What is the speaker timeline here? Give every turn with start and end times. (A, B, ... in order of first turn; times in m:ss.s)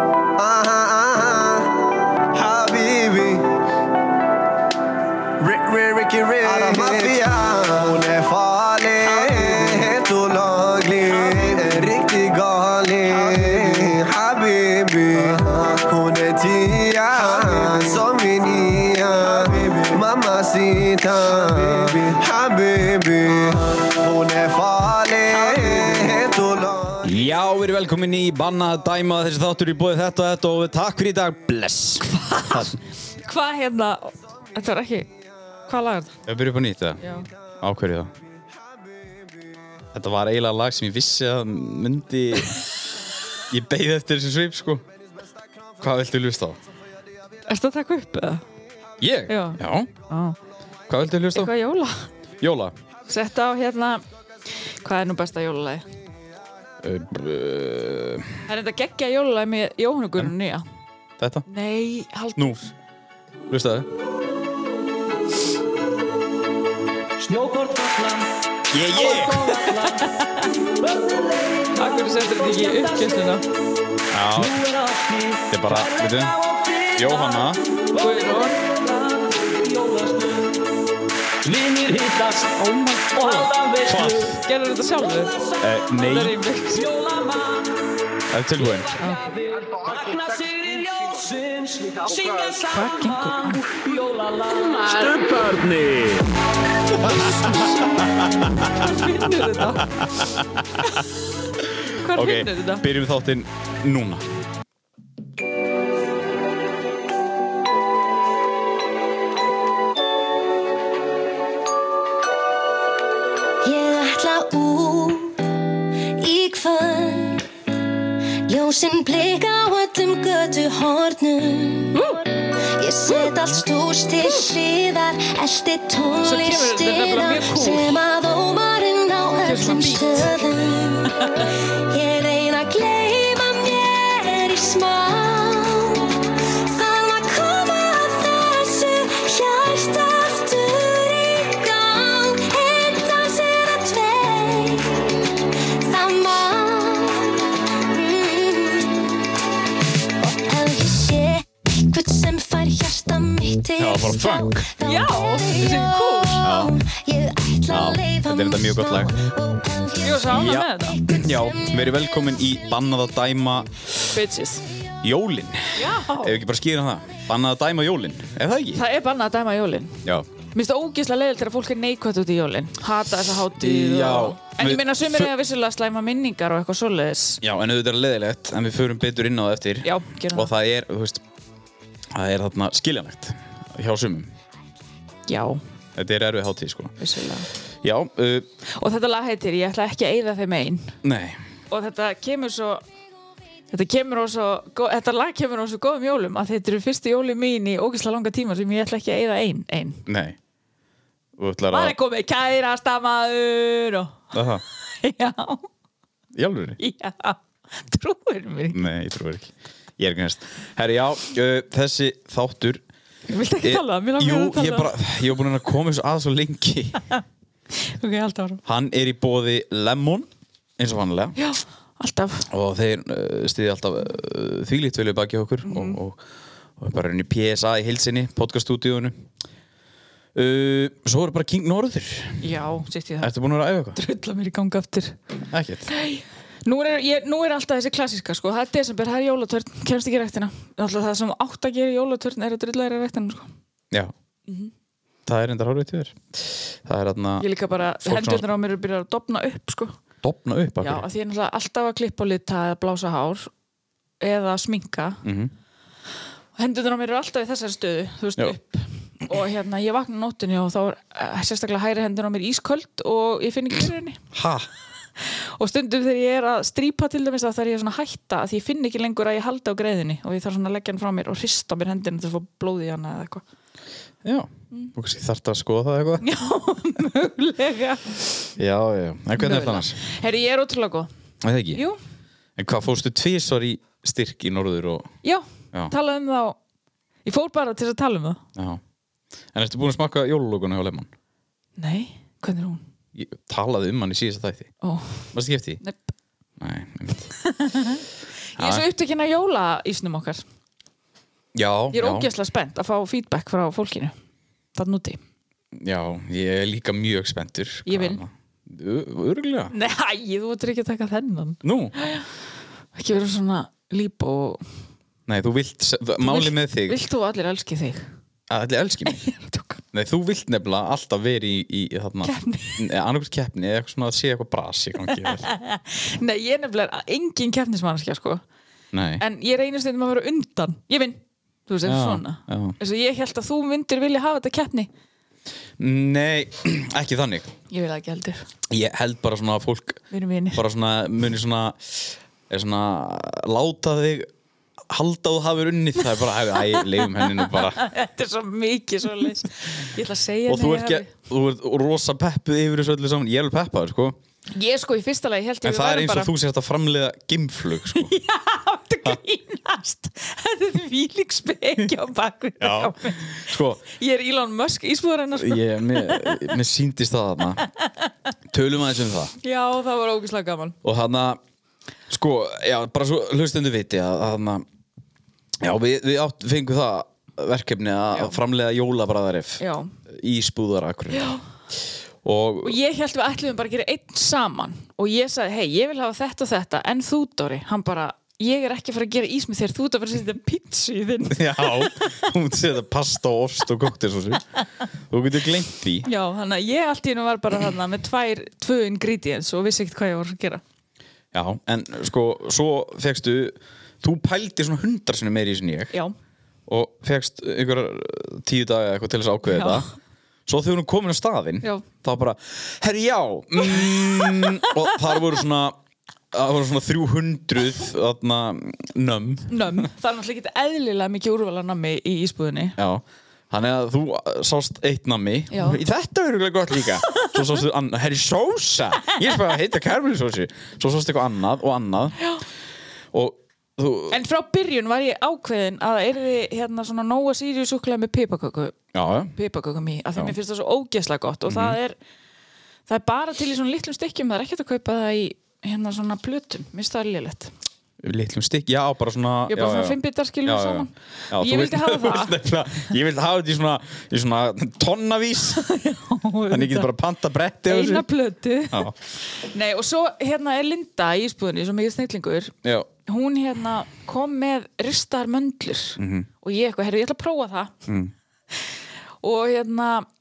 0:00.4-0:01.8 A
0:02.3-0:03.5 A
0:05.4-0:27.1 A
0:27.0-0:32.8 B
0:32.0-0:35.1 C
0:35.7-0:36.2 C
0:36.2-0:37.0 B
0:37.0-0:37.3 C
0:37.6-0:38.1 B
0:39.9-0:42.7 B
0:43.5-0:44.8 B
0:45.8-0:46.6 B
0:47.4-0:48.4 C
0:49.0-0:49.9 B
0:49.3-0:50.4 C
0:50.9-0:51.5 B
0:51.3-0:52.1 C
0:52.4-0:52.7 B
0:53.1-0:54.0 C
0:54.7-0:55.8 C
0:56.8-0:58.4 B
0:58.5-1:00.6 C
1:01.2-1:01.5 B
1:01.5-1:02.6 C
1:03.5-1:03.9 B
1:07.2-1:08.3 D
1:08.7-1:09.6 B
1:08.9-1:10.1 D
1:09.6-1:10.5 C
1:10.8-1:13.4 D
1:11.8-1:13.4 C
1:14.1-1:14.7 B
1:14.4-1:20.6 D
1:15.5-1:16.4 B
1:17.0-1:17.6 B
1:18.0-1:18.6 C
1:21.4-1:24.4 D
1:22.7-1:23.5 C
1:23.8-1:24.4 B
1:24.4-1:25.4 C
1:25.6-1:26.4 B
1:26.0-1:26.9 C
1:26.7-1:27.7 D
1:28.3-1:29.0 B
1:28.6-1:36.3 D
1:29.0-1:29.3 C
1:32.7-1:33.7 C
1:37.1-1:39.1 B
1:37.1-1:38.1 C
1:38.6-1:40.1 C
1:39.7-1:40.8 B
1:40.8-1:41.1 C
1:41.7-1:44.4 B
1:41.8-1:42.9 C
1:53.6-1:55.5 E
1:56.2-1:57.5 E
1:58.5-2:29.2 E
2:04.2-2:04.5 C
2:06.2-2:08.0 C
2:09.4-2:10.3 C
2:11.2-2:11.5 C
2:30.2-2:42.0 E
2:33.8-2:34.7 B
2:34.8-2:36.5 C
2:36.4-2:36.8 B
2:37.7-2:39.2 B
2:40.0-2:41.0 C
2:40.3-2:44.0 B
2:44.1-2:44.6 C
2:45.0-2:48.8 B
2:45.8-2:46.4 C
2:48.7-2:57.4 C
2:53.6-2:55.3 B
2:57.4-3:01.2 B
2:59.8-3:00.5 C
3:02.1-3:04.3 B
3:05.3-3:05.6 C
3:06.0-3:07.0 B
3:07.0-3:07.5 C
3:07.8-3:08.5 B
3:08.7-3:11.0 C
3:11.0-3:11.4 B
3:11.7-3:12.8 C
3:13.7-3:20.0 C
3:20.1-3:20.4 B
3:21.4-3:21.9 B
3:21.7-3:24.3 C
3:24.3-3:24.6 B
3:24.8-3:25.7 C
3:26.3-3:26.8 B
3:26.8-3:28.8 C
3:28.7-3:32.8 B
3:33.3-3:35.0 C
3:33.6-3:37.0 B
3:37.8-3:38.6 C
3:38.6-3:41.4 B
3:41.4-3:42.5 C
3:42.5-3:46.2 B
3:45.6-3:46.0 C
3:46.8-3:49.2 B
3:50.3-3:52.5 B
3:52.4-3:53.3 C
3:53.2-3:54.0 B
3:53.9-3:55.2 C
3:55.5-3:55.9 B
3:55.9-4:03.5 C
4:05.2-4:07.5 B
4:07.4-4:10.0 C
4:08.0-4:08.4 B
4:10.2-4:11.0 B
4:10.8-4:13.5 C
4:14.2-4:15.2 C
4:15.2-4:15.5 B
4:16.6-4:24.2 C
4:24.3-4:24.7 B
4:25.2-4:33.4 C
4:34.2-4:36.2 B
4:36.2-4:38.3 C
4:38.6-4:40.0 B
4:39.4-4:41.1 C
4:41.4-4:41.8 B
4:41.7-4:42.0 C
4:42.6-4:45.1 B
4:45.2-4:46.6 C
4:47.2-4:48.4 C
4:48.6-4:48.8 B
4:49.5-4:51.1 B
4:51.8-4:52.8 C
4:53.1-4:54.7 B
4:54.8-4:56.0 C
4:55.3-4:55.8 B
4:56.6-4:57.3 B
4:57.3-5:00.4 C
4:58.6-4:58.8 B
5:01.5-5:02.3 B
5:01.9-5:04.1 C
5:04.8-5:05.2 C
5:05.8-5:09.7 B
5:07.8-5:08.2 C
5:09.7-5:12.3 C
5:11.6-5:11.9 B
5:12.9-5:14.6 C
5:15.3-5:17.0 B
5:16.2-5:18.1 C
5:18.5-5:19.2 B
5:19.1-5:19.8 C
5:19.9-5:25.5 B
5:22.2-5:22.9 C
5:25.0-5:28.4 C
5:28.9-5:29.2 B
5:29.2-5:34.9 C
5:31.8-5:32.8 B
5:35.8-5:37.5 B
5:37.7-5:38.5 C
5:38.7-5:40.0 B
5:40.1-5:40.6 C
5:40.5-5:44.3 B
5:44.9-5:47.8 B
5:46.2-5:51.1 C
5:50.5-5:54.2 B
5:54.5-5:56.3 C
5:55.6-5:58.1 B
5:57.9-6:06.6 C
6:02.6-6:03.8 B
6:05.3-6:07.6 B
6:07.6-6:07.9 C
6:08.5-6:09.3 B
6:09.4-6:10.8 C
6:10.8-6:11.4 B
6:12.1-6:14.6 B
6:15.6-6:21.4 B
6:19.6-6:19.9 C
6:21.1-6:21.4 C
6:22.2-6:22.8 B
6:22.6-6:32.3 C
6:31.3-6:34.4 B
6:35.1-6:36.1 B
6:36.0-6:40.6 C
6:41.3-6:46.0 B
6:46.7-6:49.9 B
6:49.5-6:49.8 C
6:50.5-6:55.8 B
6:54.2-6:54.7 C
6:56.3-6:59.9 B
6:59.5-7:02.8 C
7:02.8-7:12.2 B
7:05.5-7:05.8 C
7:12.2-7:12.4 C
7:13.1-7:14.2 B
7:14.1-7:18.8 C
7:18.9-7:19.3 B
7:19.3-7:22.0 C
7:21.5-7:21.8 B
7:22.9-7:27.5 C
7:28.0-7:35.6 B
7:29.5-7:32.4 C
7:35.5-7:36.9 C
7:36.5-7:38.1 B
7:37.6-7:42.5 C
7:43.0-7:47.8 C
7:46.0-7:46.3 B
7:47.9-7:48.1 B
7:49.2-7:50.1 C